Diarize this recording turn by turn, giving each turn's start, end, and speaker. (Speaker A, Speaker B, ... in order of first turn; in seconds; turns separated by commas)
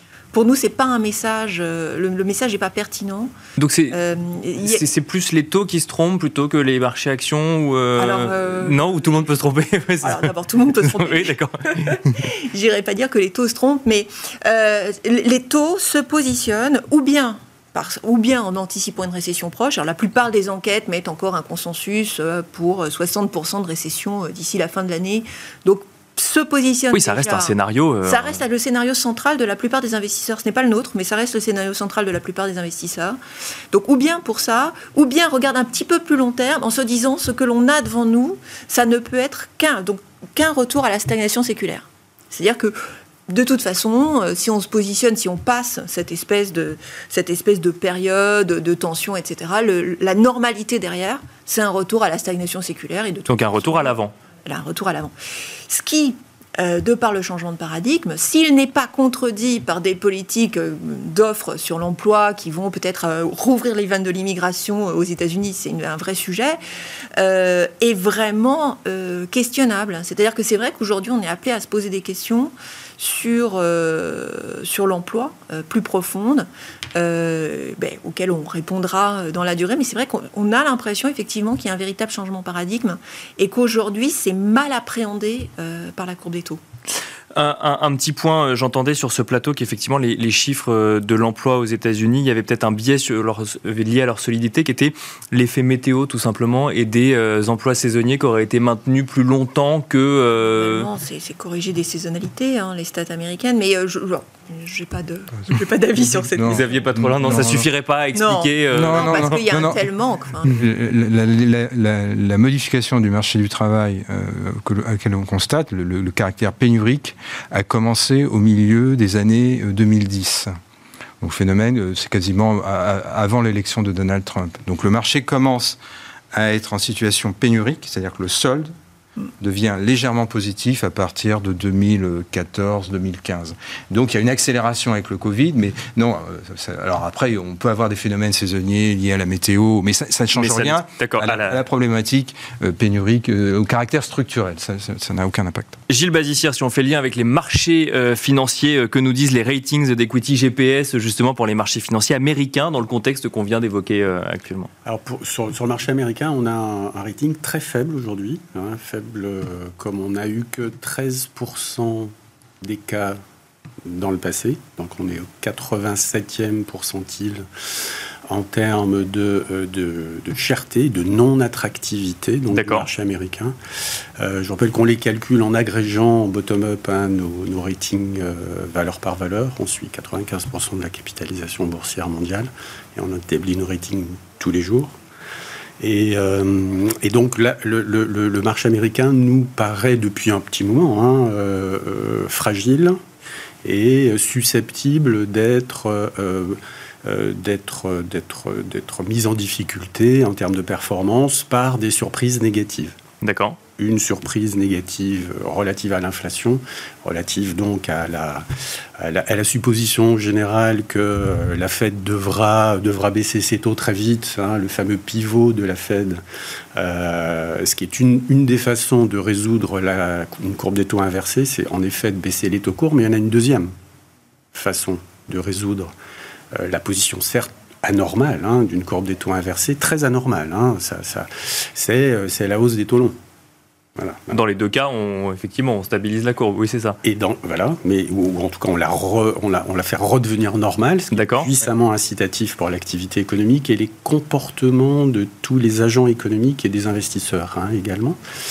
Speaker A: 0.3-3.3, Speaker B: 3.6-4.0, Speaker A: 3.9-4.8, Speaker B: 4.6-12.0, Speaker A: 8.0-9.0, Speaker A: 10.0-33.2, Speaker B: 26.9-28.4, Speaker A: 33.7-54.0, Speaker B: 53.3-54.1, Speaker A: 54.5-55.1, Speaker A: 55.7-66.6, Speaker A: 67.2-86.6, Speaker B: 87.3-100.9, Speaker A: 100.5-107.6, Speaker C: 105.5-107.7, Speaker B: 106.5-109.4, Speaker A: 108.2-110.6, Speaker C: 108.7-109.9, Speaker C: 110.5-120.5, Speaker C: 121.2-125.8, Speaker C: 126.3-128.8, Speaker C: 129.4-145.8, Speaker B: 140.3-141.6, Speaker B: 145.9-154.7, Speaker D: 154.8-163.2, Speaker D: 163.9-167.5, Speaker D: 168.3-173.6, Speaker B: 172.5-172.9, Speaker D: 174.2-184.9, Speaker D: 185.8-193.0, Speaker D: 193.6-203.0, Speaker B: 203.2-203.6, Speaker D: 203.8-208.5, Speaker D: 209.0-216.2, Speaker D: 216.8-223.7, Speaker D: 224.5-225.9, Speaker D: 226.5-233.2, Speaker D: 234.0-234.4, Speaker B: 234.3-237.0, Speaker D: 237.0-248.2, Speaker B: 241.1-241.5